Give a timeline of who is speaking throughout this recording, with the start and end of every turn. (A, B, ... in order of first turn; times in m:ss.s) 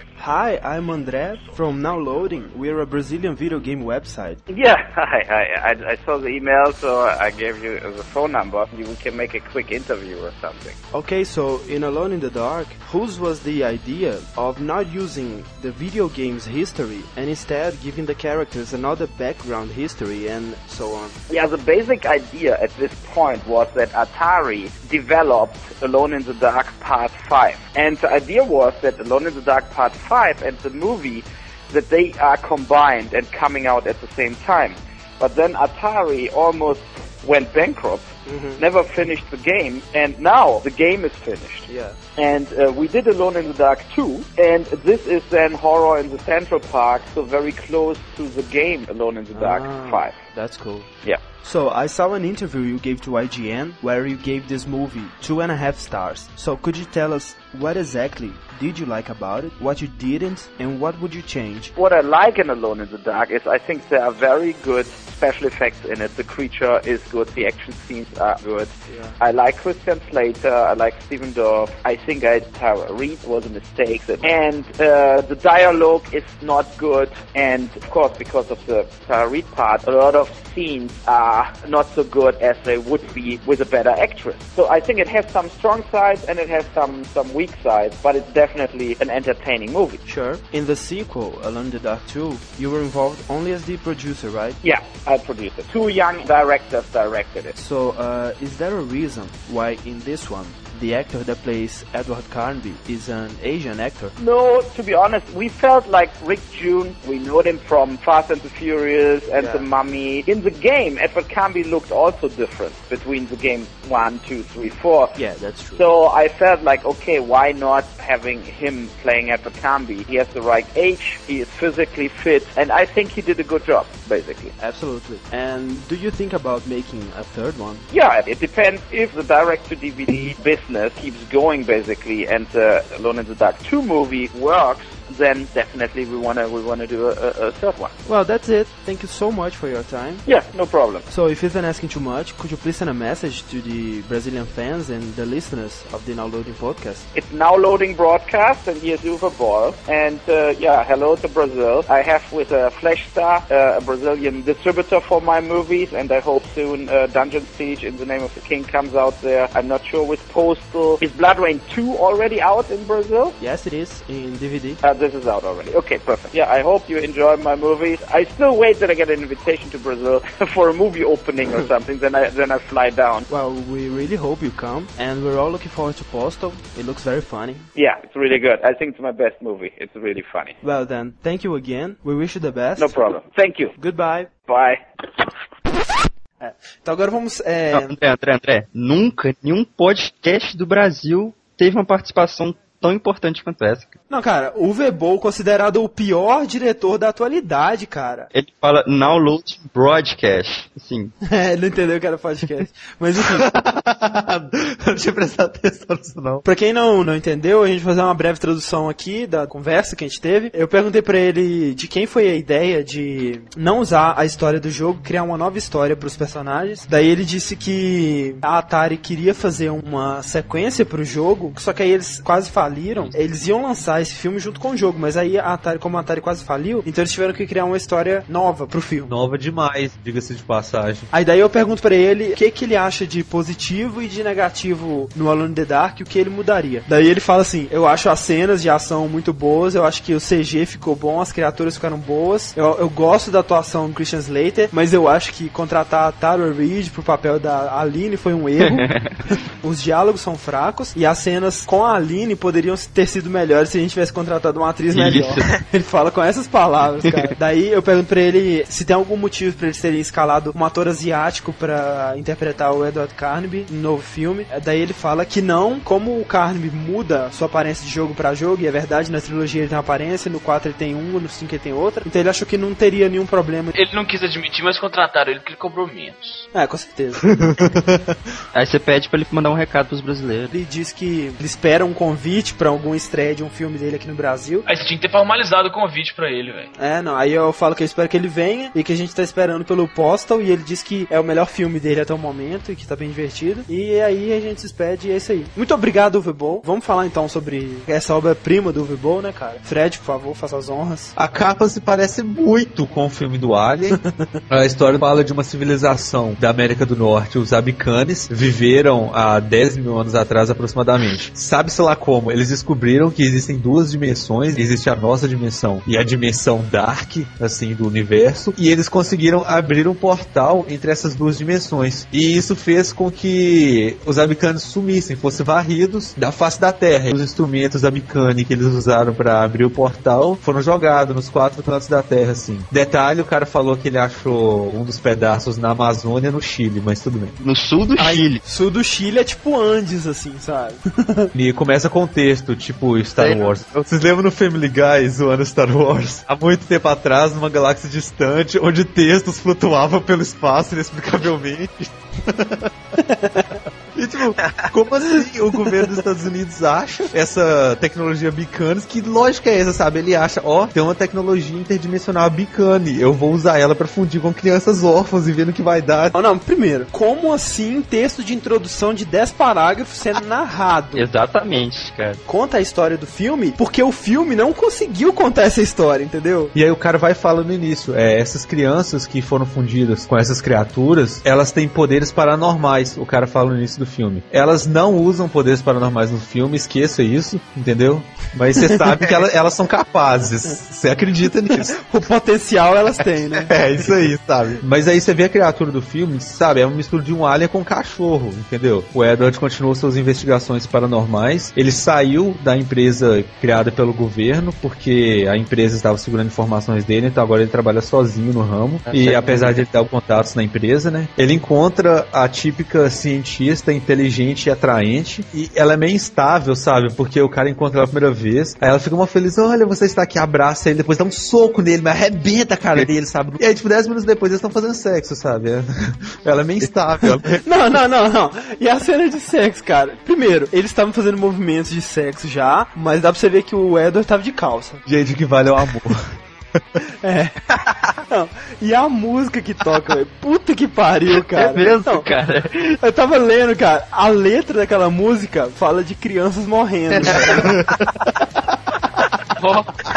0:00.2-0:04.4 A
0:04.5-0:10.8 B
0:10.9-0:21.2 A
0:21.3-0:50.2 B
0:38.3-0:38.6 A
0:41.7-0:42.0 A
0:49.3-0:50.9 A
0:51.4-1:01.7 A
1:01.7-1:30.0 B
1:08.9-1:09.2 A
1:30.0-1:34.6 A
1:34.6-1:37.5 B
1:37.5-1:44.1 A
1:44.2-1:55.2 B
1:49.3-1:49.7 A
1:55.2-1:55.8 A
1:55.8-2:04.5 B
2:04.6-2:07.8 A
2:07.9-2:17.9 B
2:18.0-2:20.2 A
2:20.2-2:21.0 B
2:21.1-2:27.0 A
2:27.1-2:43.4 B
2:43.4-2:44.8 A
2:44.8-2:53.3 B
2:53.3-2:57.7 A
2:57.7-3:00.6 B
3:00.6-3:02.9 A
3:02.8-3:03.7 B
3:03.8-3:04.3 A
3:04.5-3:05.2 B
3:06.4-3:07.9 A
3:07.7-3:14.0 C
3:14.1-3:18.3 A
3:18.3-3:21.1 C
3:21.2-3:23.4 A
3:23.2-3:26.4 D
3:26.4-3:49.1 A
3:49.1-3:51.1 D
3:51.1-4:08.9 A
4:08.6-4:09.2 C
4:09.6-4:33.7 A
4:14.9-4:15.5 C
4:33.7-4:36.4 E
4:36.5-4:37.2 A
4:37.3-4:38.0 D
4:38.5-4:40.5 C
4:40.5-4:44.6 A
4:44.6-4:46.7 E
4:46.8-5:01.1 A
5:01.2-5:37.3 D
5:37.4-5:38.4 C
5:38.0-5:41.3 A
5:41.3-5:52.7 D
5:43.2-5:43.6 C
5:53.0-5:53.6 A
5:53.9-6:06.2 D
6:06.1-6:11.0 A
6:10.9-6:12.2 C
6:12.2-6:16.5 A
6:16.5-6:31.7 D
6:31.8-6:33.5 A
6:33.5-7:07.4 D
6:48.8-6:49.6 C
7:07.4-7:14.8 A
7:14.8-7:16.0 D
7:17.0-7:17.3 A
7:18.1-7:22.0 A
7:21.3-7:22.8 C
7:22.8-7:27.5 A
7:27.2-7:27.9 D
7:29.4-7:29.7 E